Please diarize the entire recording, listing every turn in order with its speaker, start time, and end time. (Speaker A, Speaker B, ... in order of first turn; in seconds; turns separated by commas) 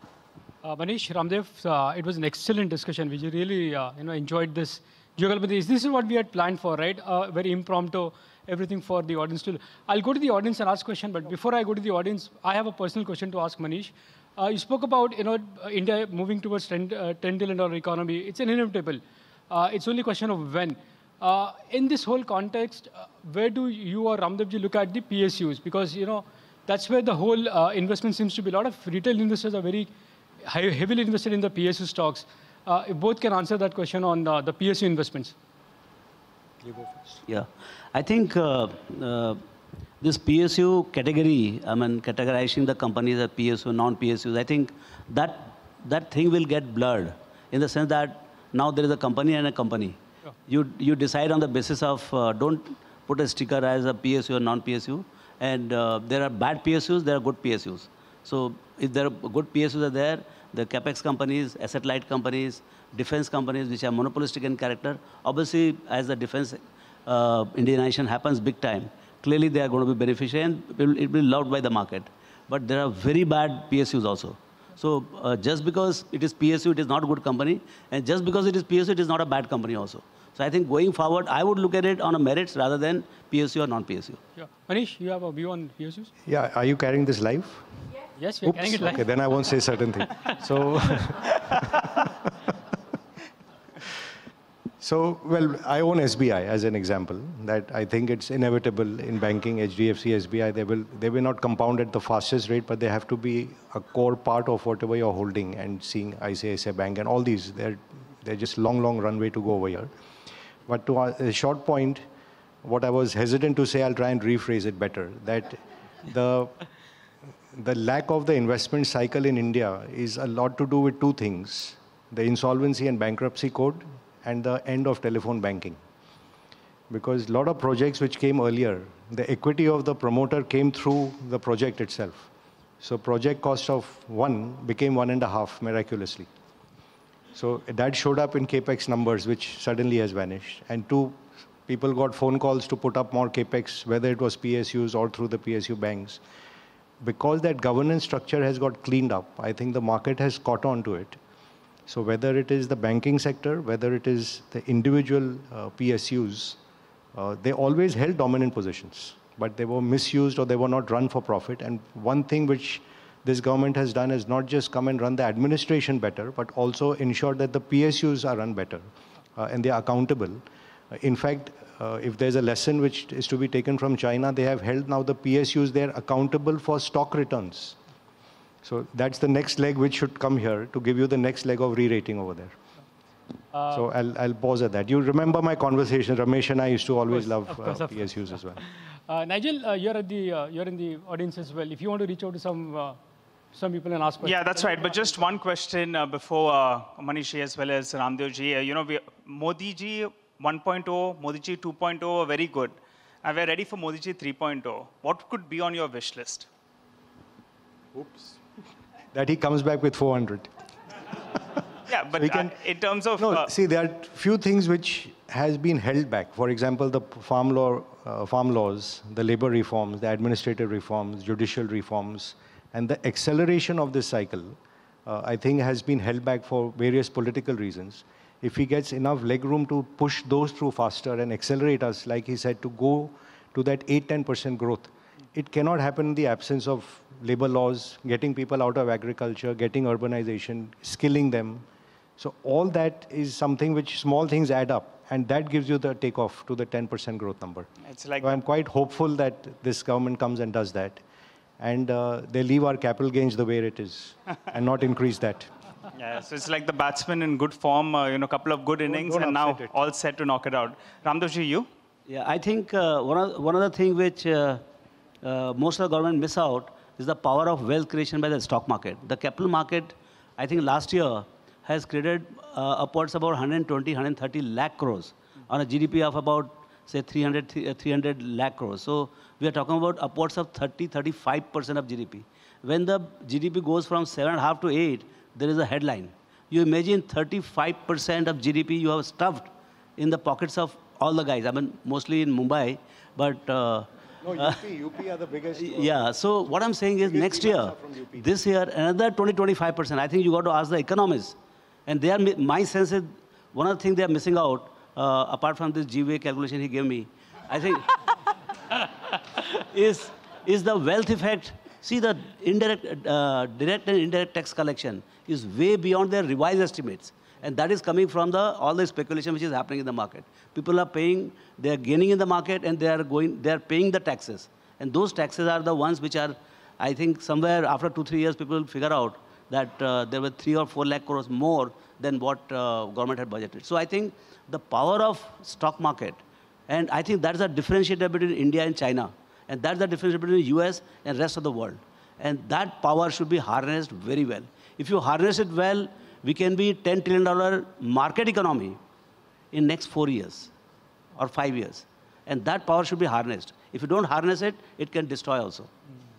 Speaker A: 0.6-29.9, Speaker A: 30.4-35.3, Speaker B: 36.6-37.2, Speaker C: 37.3-39.4, Speaker C: 40.0-84.2, Speaker A: 84.3-86.1, Speaker B: 86.2-87.6, Speaker A: 88.2-89.1, Speaker B: 88.4-92.1, Speaker B: 94.8-109.9, Speaker B: 110.7-112.0, Speaker B: 112.6-116.5, Speaker B: 117.5-125.8, Speaker B: 126.9-132.3, Speaker B: 132.8-136.3, Speaker B: 137.3-146.2, Speaker B: 147.0-151.2, Speaker B: 151.9-156.6, Speaker B: 157.1-168.8, Speaker B: 169.4-177.8, Speaker B: 178.6-182.6, Speaker A: 183.5-183.8, Speaker B: 183.7-188.6, Speaker A: 187.1-188.1, Speaker A: 188.6-193.0, Speaker A: 193.5-195.2, Speaker D: 194.2-206.5, Speaker B: 209.1-210.5, Speaker D: 211.9-213.5, Speaker B: 212.1-212.5, Speaker B: 213.2-241.6, Speaker B: 242.2-247.7, Speaker D: 247.8-248.4, Speaker B: 248.2-251.0, Speaker B: 251.6-255.5, Speaker D: 255.9-261.7, Speaker B: 258.9-259.7, Speaker C: 262.1-264.6, Speaker C: 265.2-294.6, Speaker B: 294.2-296.1, Speaker C: 295.6-301.3, Speaker B: 297.0-298.3, Speaker C: 301.9-308.0, Speaker C: 309.5-348.8, Speaker C: 349.5-350.5, Speaker C: 351.1-355.7